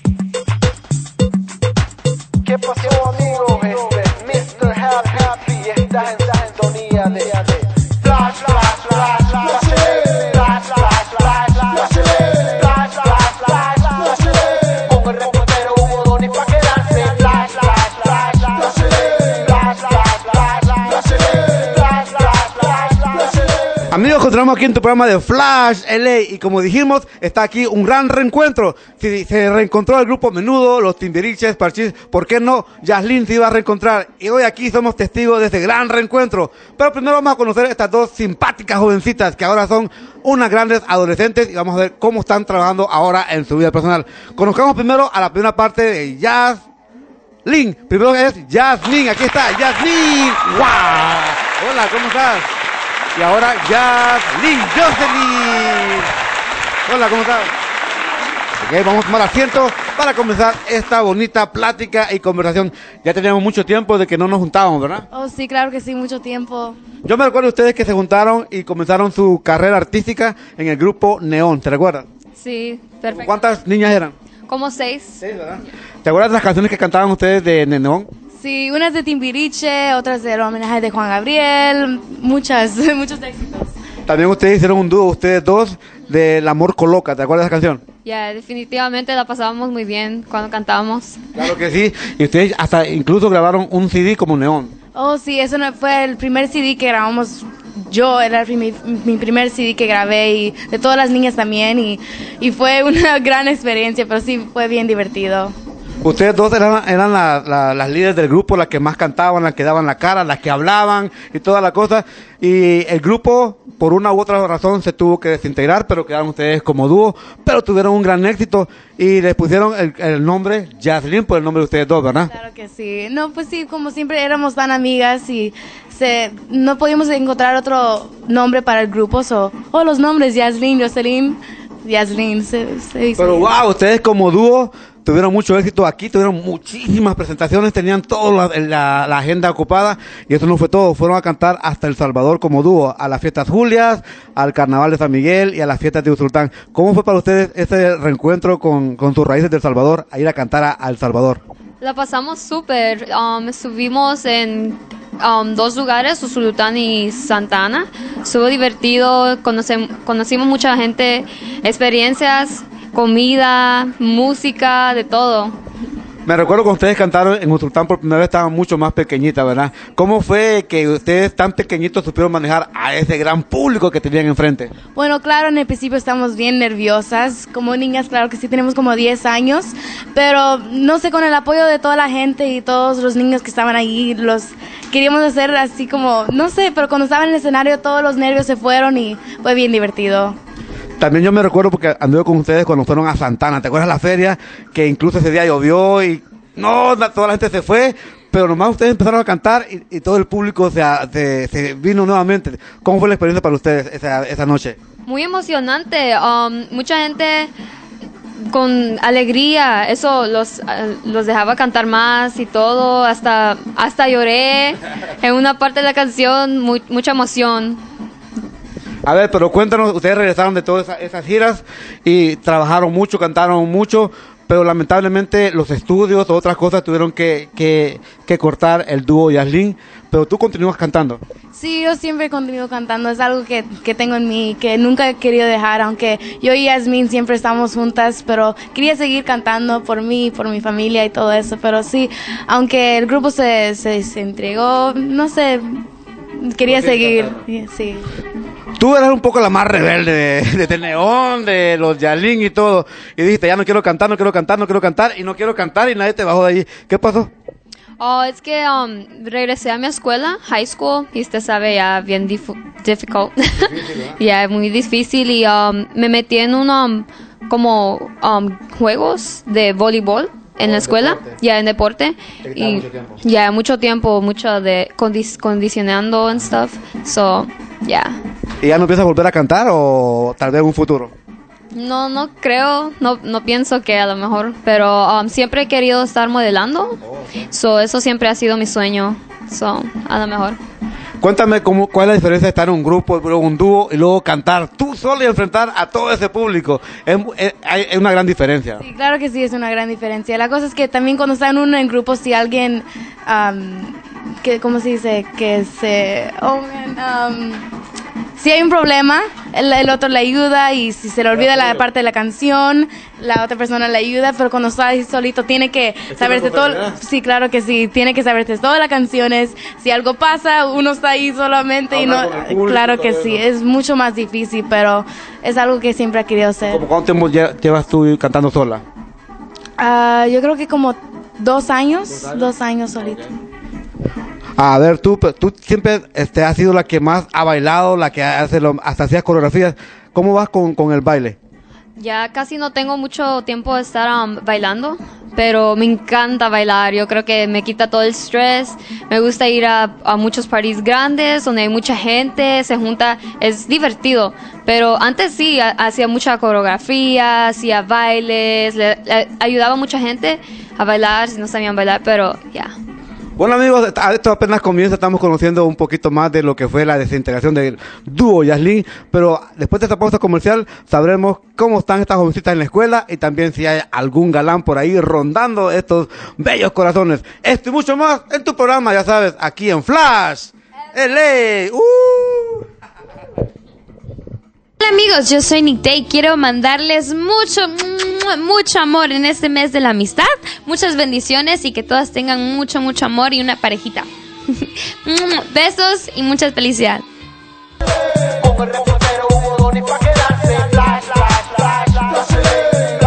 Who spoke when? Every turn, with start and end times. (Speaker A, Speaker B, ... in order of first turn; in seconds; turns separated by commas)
Speaker A: 3.0-4.5, Speaker A: 6.7-7.2, Speaker A: 23.9-46.6, Speaker A: 47.4-52.5, Speaker A: 53.1-56.1, Speaker A: 56.9-57.5, Speaker A: 58.6-65.1, Speaker B: 65.1-66.8, Speaker A: 67.0-72.0, Speaker C: 72.4-73.4, Speaker A: 73.1-74.1, Speaker C: 74.5-75.2, Speaker A: 75.2-78.1, Speaker B: 78.4-83.7, Speaker A: 84.0-87.8, Speaker C: 88.0-91.2, Speaker A: 91.3-94.7, Speaker B: 94.9-105.5, Speaker A: 106.0-122.3, Speaker B: 122.3-133.5, Speaker A: 133.2-151.4, Speaker C: 151.8-165.6, Speaker A: 166.2-174.7, Speaker B: 174.9-190.3, Speaker A: 191.0-204.8, Speaker C: 205.1-207.5, Speaker C: 208.4-217.8, Speaker A: 219.1-231.2, Speaker B: 231.5-245.8, Speaker B: 246.4-248.1, Speaker A: 246.7-247.3, Speaker A: 248.8-257.3, Speaker C: 258.0-278.2, Speaker A: 263.6-264.1, Speaker A: 270.6-271.4, Speaker A: 272.4-273.2, Speaker A: 278.6-281.1, Speaker C: 281.7-290.6, Speaker A: 291.2-298.8, Speaker B: 298.8-307.7, Speaker B: 308.4-326.8, Speaker A: 311.3-311.8, Speaker A: 316.1-317.0, Speaker A: 321.9-323.4, Speaker A: 326.6-328.8, Speaker B: 329.8-333.3, Speaker A: 334.6-341.4, Speaker C: 341.9-362.7, Speaker A: 363.4-382.6, Speaker D: 384.8-397.0